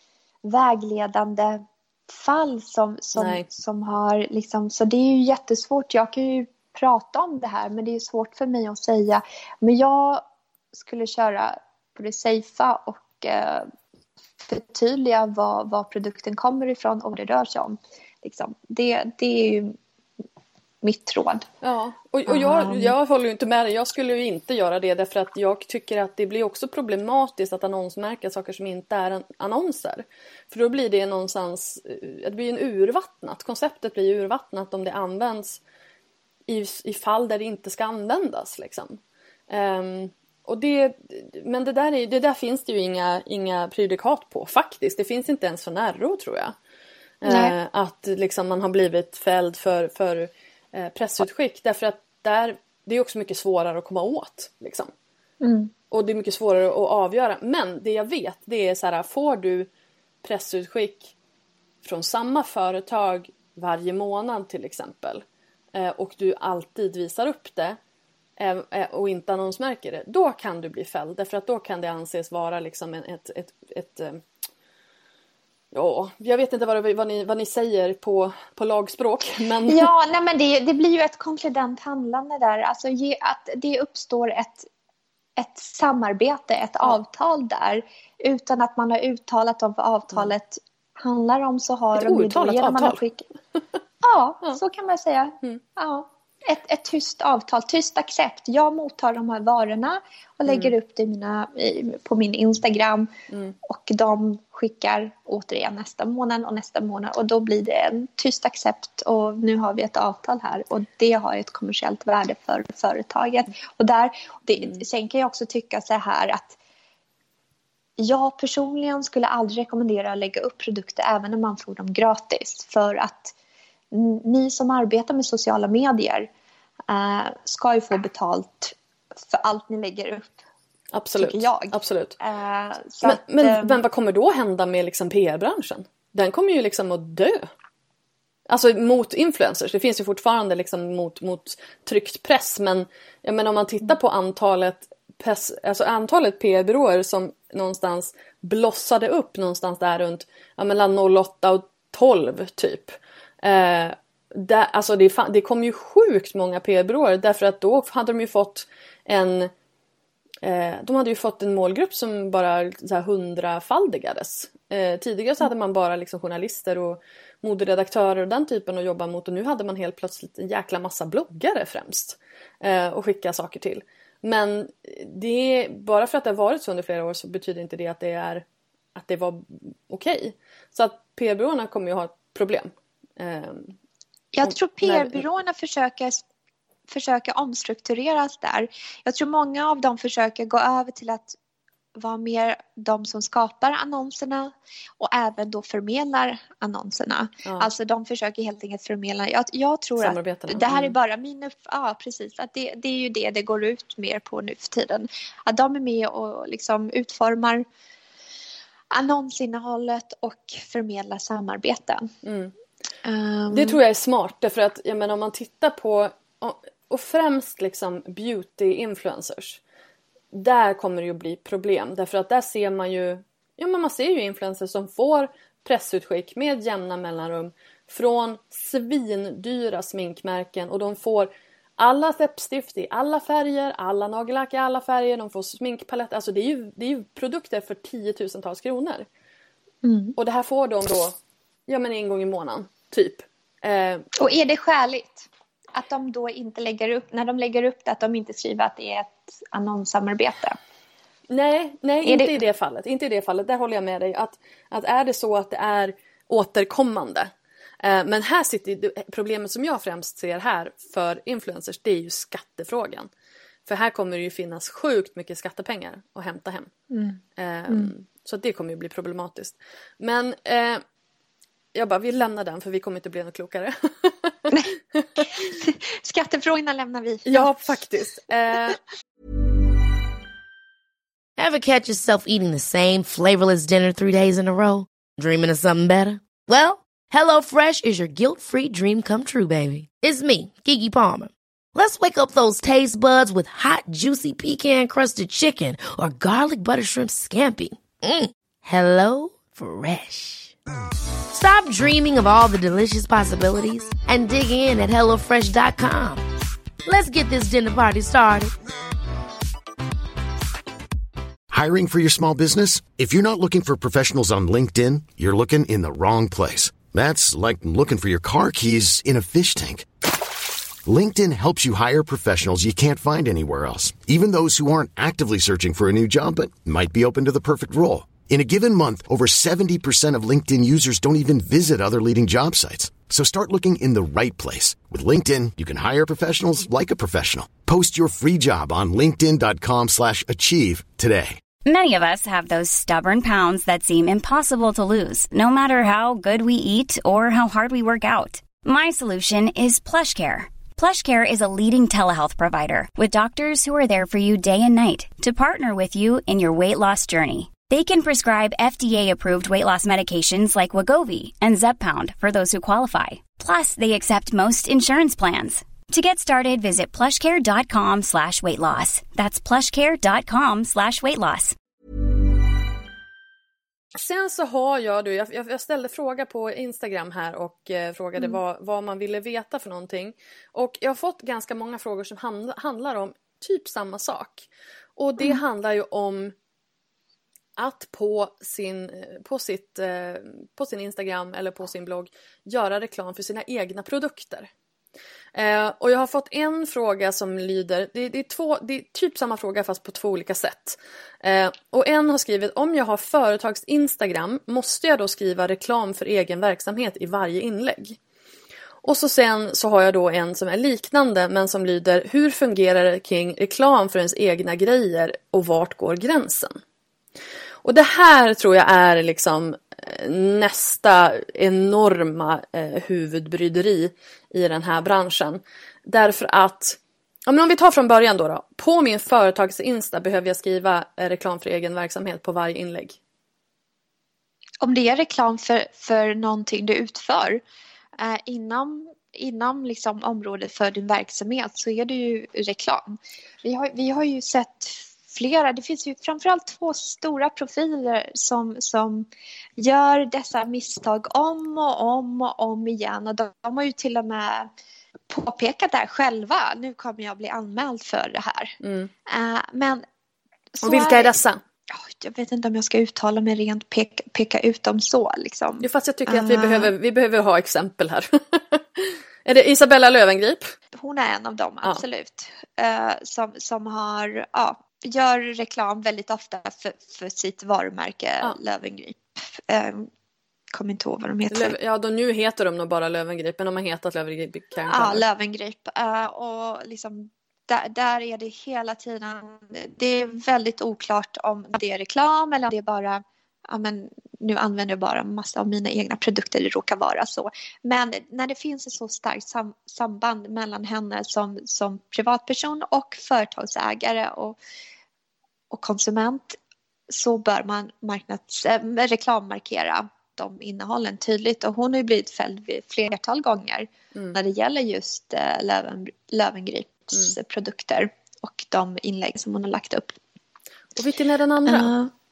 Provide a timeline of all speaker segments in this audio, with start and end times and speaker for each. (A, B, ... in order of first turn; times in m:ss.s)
0:00.4-0:10.2 A
0:03.1-0:03.4 B
0:10.7-0:13.7 A
0:14.4-0:19.7 A
0:20.8-0:21.4 A
0:21.6-0:35.6 B
0:22.3-0:22.9 A
0:36.5-0:46.6 B
0:47.2-0:54.9 B
0:47.3-0:47.5 A
0:55.4-0:55.7 A
0:55.9-0:59.7 B
1:00.2-1:01.1 B
1:01.8-1:07.8 B
1:08.4-1:14.2 B
1:15.7-1:19.9 B
1:19.7-1:24.7 A
1:25.4-1:33.2 A
1:32.0-1:33.0 B
1:34.0-1:43.1 A
1:40.4-1:40.7 B
1:43.3-1:43.6 B
1:43.6-1:56.6 A
1:58.0-2:03.3 A
2:03.9-2:06.3 A
2:06.9-2:08.7 A
2:09.3-2:10.4 A
2:10.9-2:12.2 B
2:11.2-2:13.8 A
2:13.0-2:17.5 B
2:18.5-2:39.5 B
2:40.4-3:03.7 B
3:04.3-3:06.2 A
3:04.4-3:05.2 B
3:06.9-3:11.3 A
3:11.9-3:27.6 A
3:17.4-3:17.7 B
3:20.0-3:21.0 B
3:28.9-3:32.1 A
3:32.2-3:32.5 B
3:33.0-3:33.8 A
3:33.5-3:39.6 B
3:40.3-3:59.1 B
3:59.8-4:00.2 A
4:00.2-4:01.2 B
4:01.7-4:04.0 B
4:04.2-4:10.6 A
4:11.3-4:23.1 B
4:12.0-4:12.4 A
4:23.6-4:26.7 B
4:26.9-4:27.9 A
4:27.4-4:30.8 B
4:31.7-4:35.3 B
4:34.5-4:37.7 A
4:37.2-4:38.8 B
4:41.4-5:00.6 C
5:01.3-5:06.2 C
5:06.8-5:08.5 C
5:11.5-5:19.8 D
5:20.9-5:41.4 D
5:41.6-6:11.5 E
6:13.9-6:26.3 B
6:27.6-6:34.5 B
6:35.3-6:48.0 B
6:48.8-6:56.6 B
6:57.6-7:13.0 B
7:14.6-7:17.4 A
7:18.0-7:34.5 A
7:35.1-7:38.5 A
7:38.6-7:38.9 B
7:39.1-7:39.8 A
7:40.5-7:41.1 A
7:40.6-7:41.4 B
7:41.7-7:46.7 A
7:45.6-7:50.5 B
7:50.7-7:59.9 A
8:00.5-8:01.6 A
8:01.3-8:05.0 B
8:04.6-8:24.4 A
8:25.5-8:26.4 A
8:26.9-8:39.9 A
8:40.7-8:41.7 B
8:41.5-8:41.9 A